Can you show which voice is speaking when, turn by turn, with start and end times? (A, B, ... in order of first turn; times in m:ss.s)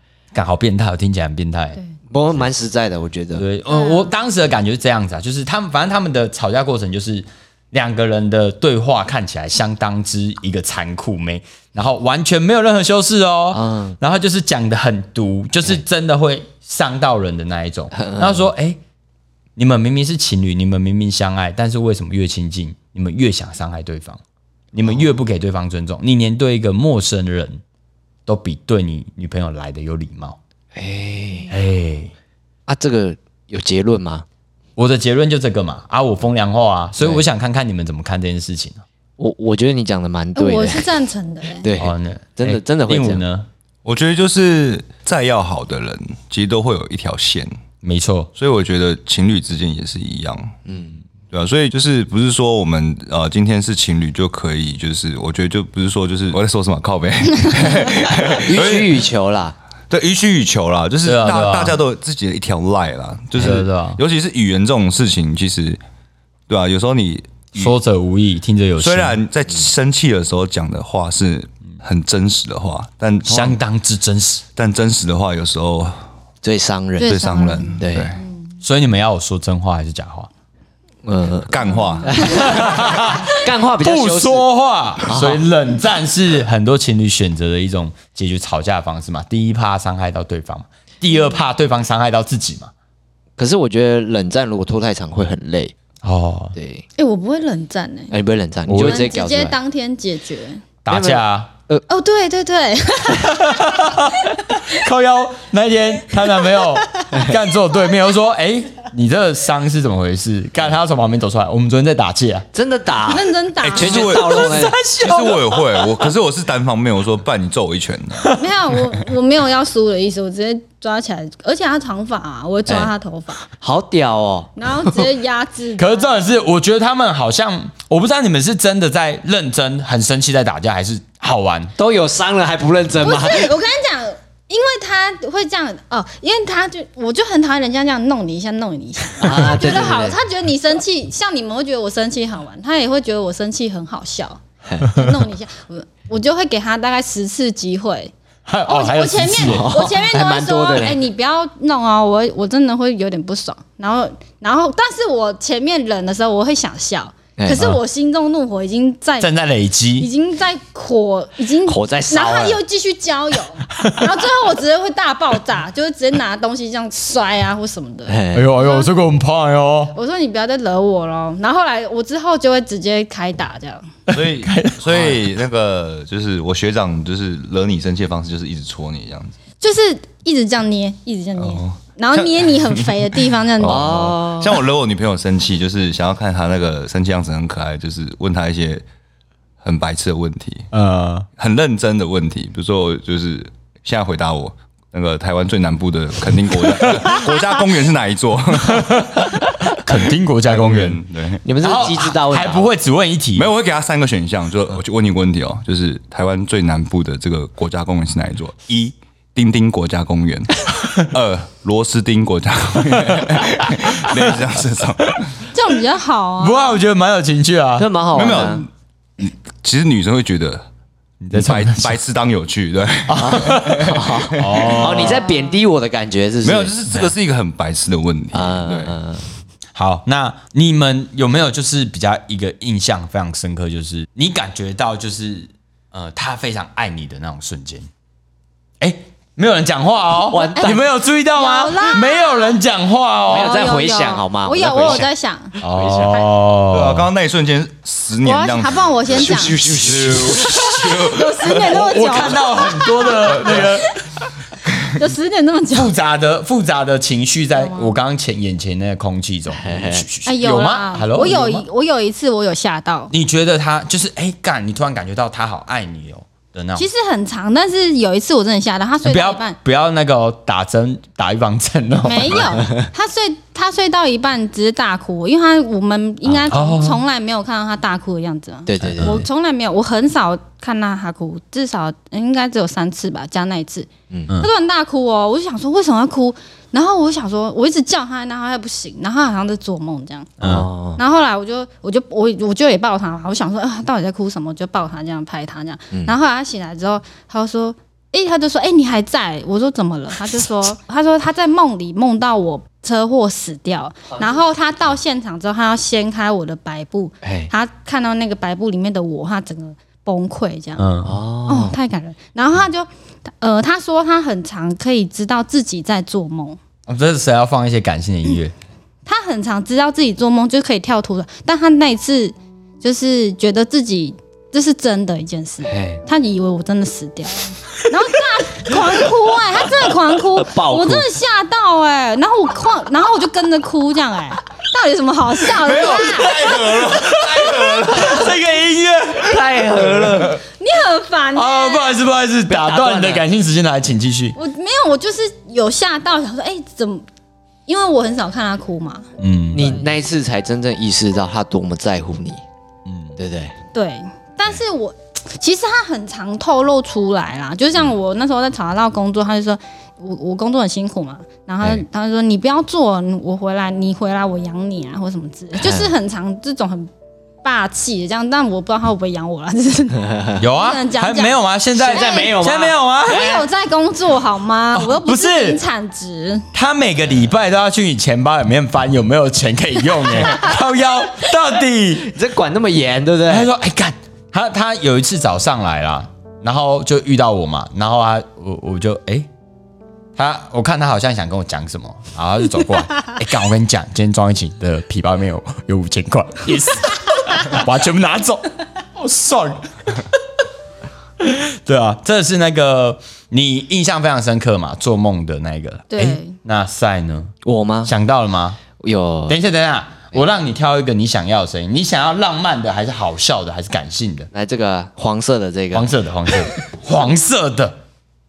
0:00.3-0:01.8 A
0:02.1-0:03.4 B
0:03.4-0:18.8 A
0:03.7-0:04.1 C
0:13.5-0:14.0 B
0:17.9-0:18.5 B
0:19.6-0:24.2 A
0:24.7-0:27.6 A
0:28.3-0:30.4 A
0:30.7-0:31.5 B
0:31.5-0:32.1 A
0:32.7-0:34.2 B
0:34.8-0:38.8 A
0:37.0-0:37.2 B
0:39.2-0:40.9 B
0:40.4-0:41.7 C
0:41.6-0:43.2 B
0:41.8-0:43.5 A
0:43.8-0:47.6 D
0:47.8-0:48.3 A
0:48.4-0:50.6 D
0:50.7-0:51.0 B
0:51.3-0:59.0 D
0:58.3-0:59.6 B
0:59.9-1:05.8 D
1:01.0-1:01.8 A
1:03.4-1:04.0 A
1:06.5-1:07.7 D
1:07.6-1:09.2 A
1:08.8-1:13.6 D
1:13.3-1:14.4 A
1:14.6-1:16.0 D
1:16.4-1:18.1 B
1:17.0-1:18.3 C
1:17.0-1:18.2 D
1:18.6-1:20.3 A
1:21.0-1:24.5 B
1:21.5-1:22.4 D
1:21.7-1:22.1 C
1:22.2-1:32.7 A
1:25.0-1:25.4 B
1:33.4-1:35.7 B
1:36.0-1:36.6 A
1:36.6-1:36.8 B
1:37.0-1:38.1 C
1:38.1-1:39.6 B
1:38.7-1:39.1 A
1:38.7-1:40.6 C
1:40.8-1:41.5 A
1:40.9-1:41.8 B
1:41.9-1:43.9 C
1:43.2-1:52.5 A
1:52.5-1:54.8 B
1:53.1-1:54.5 C
1:53.6-1:58.3 D
1:53.9-1:55.9 A
1:58.3-2:03.4 C
2:02.7-2:02.9 B
2:03.5-2:05.1 B
2:04.6-2:06.2 C
2:05.8-2:11.7 A
2:11.8-2:13.5 B
2:13.0-2:28.1 C
2:19.2-2:20.2 B
2:28.5-2:29.7 A
2:28.7-2:39.3 C
2:29.4-2:31.0 B
2:37.4-2:37.7 B
2:39.2-2:40.1 A
2:40.0-2:48.9 C
2:41.7-2:42.6 B
2:43.7-2:44.1 A
2:48.1-2:48.5 B
2:48.3-2:50.0 A
2:50.0-2:53.9 C
2:54.1-2:54.8 A
2:54.1-2:59.4 D
2:59.6-3:04.1 C
3:01.4-3:08.8 D
3:03.6-3:04.6 B
3:09.6-3:10.7 D
3:10.7-3:11.3 A
3:11.4-3:19.5 D
3:18.7-3:21.0 A
3:20.5-3:21.4 D
3:21.4-3:22.7 B
3:21.6-3:23.5 A
3:23.4-3:35.5 D
3:33.1-3:34.3 A
3:35.5-3:36.8 C
3:36.4-3:37.9 A
3:37.8-3:38.7 B
3:38.1-3:40.7 D
3:41.2-3:42.0 A
3:41.3-3:44.8 D
3:43.1-3:45.3 A
3:43.2-3:46.8 B
3:45.0-3:45.5 C
3:46.4-3:49.0 D
3:48.3-3:49.2 B
3:49.8-3:57.9 A
3:58.8-4:03.6 A
4:00.3-4:00.8 B
4:00.5-4:00.8 C
4:01.4-4:02.6 C
4:03.3-4:05.6 C
4:03.3-4:05.1 B
4:05.6-4:06.3 B
4:05.6-4:07.1 A
4:06.7-4:11.8 D
4:08.2-4:09.6 C
4:09.1-4:10.7 B
4:10.8-4:13.8 C
4:11.6-4:14.0 A
4:13.3-4:13.7 D
4:14.9-4:15.9 C
4:15.7-4:21.6 A
4:17.5-4:18.0 C
4:19.6-4:20.1 B
4:20.2-4:23.1 C
4:23.1-4:26.9 A
4:26.8-4:29.6 C
4:29.0-4:32.6 A
4:32.0-4:50.4 C
4:36.5-4:37.0 A
4:38.7-4:39.2 B
4:38.8-4:39.3 A
4:50.4-4:50.7 A
4:50.4-4:51.0 B
4:51.0-5:10.9 C
5:07.2-5:07.5 B
5:10.8-5:11.2 A
5:11.0-5:11.8 B
5:11.5-5:12.9 C
5:13.4-5:16.6 C
5:16.9-5:18.5 A
5:19.1-5:36.8 C
5:25.7-5:26.0 B
5:30.4-5:31.1 B
5:35.6-5:38.3 D
5:36.5-5:39.5 A
5:39.2-5:40.4 B
5:39.8-5:40.4 D
5:40.6-5:42.0 C
5:41.3-5:44.4 A
5:42.5-5:43.2 B
5:44.4-5:47.0 C
5:47.7-5:49.9 C
5:49.2-5:49.8 A
5:49.5-5:52.4 B
5:52.9-5:53.2 A
5:53.2-5:53.5 B
5:53.7-6:06.9 C
6:05.6-6:05.9 B
6:07.4-6:12.4 C
6:10.4-6:13.4 A
6:11.8-6:13.4 B
6:13.0-6:16.5 C
6:14.7-6:15.6 A
6:16.5-6:22.1 A
6:22.0-6:23.5 B
6:23.3-6:29.3 A
6:30.2-6:40.1 A
6:41.2-6:47.3 A
6:45.9-6:46.3 C
6:47.4-6:47.9 B
6:47.9-6:48.6 A
6:48.8-6:49.4 B
6:49.3-6:54.3 A
6:54.3-6:55.9 B
6:55.7-6:57.8 A